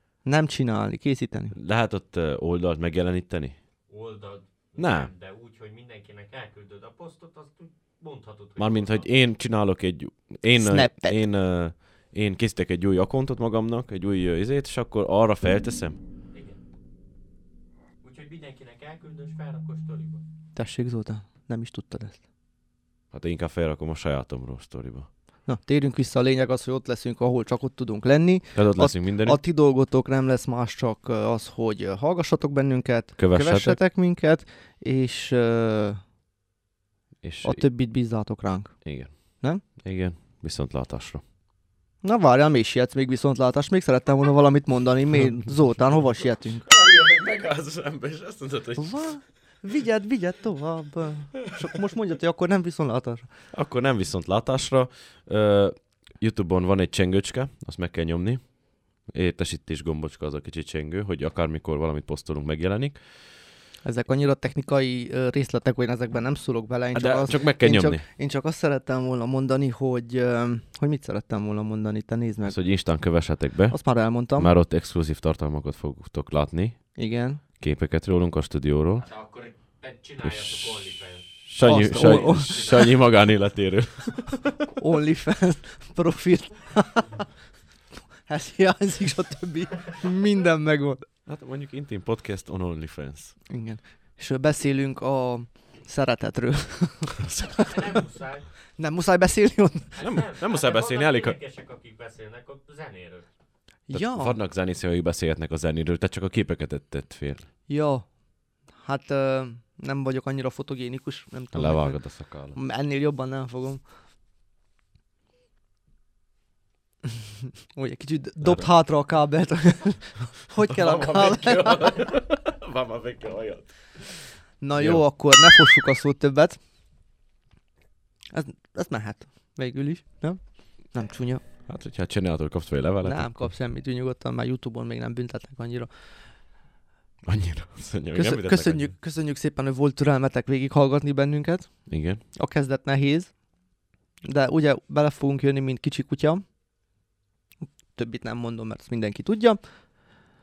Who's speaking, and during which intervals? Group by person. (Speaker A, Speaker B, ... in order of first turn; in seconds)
Speaker A: 0.2-1.5, 10.5-11.2, 20.5-22.2, 25.4-36.0, 37.4-39.6, 42.0-46.6, 48.8-53.3, 63.8-72.6, 73.7-74.5, 77.0-77.4, 81.6-82.9, 84.8-87.2, 88.2-91.0, 93.5-97.3, 98.8-100.0, 103.9-104.4, 107.7-113.8, 117.7-122.1, 124.6-126.6, 128.3-131.4, 133.0-135.9, 138.1-143.4, 144.2-146.4, 147.9-149.6
Speaker B: 1.5-3.6, 4.8-5.1, 8.6-16.0, 23.1-25.1, 28.5-29.4, 33.2-33.8, 37.2-37.6, 38.8-41.2, 46.6-49.1, 53.5-63.0, 66.9-68.0, 72.5-77.0, 77.5-79.1, 80.2-80.7, 81.4-84.5, 91.3-93.3, 97.2-97.7, 100.0-101.4, 103.9-107.5, 111.5-112.6, 120.7-125.0, 131.7-133.5, 137.2-138.9, 141.9-142.2
Speaker C: 3.9-9.1, 16.3-16.6, 18.0-20.2, 79.0-81.3, 97.7-98.5, 99.9-103.3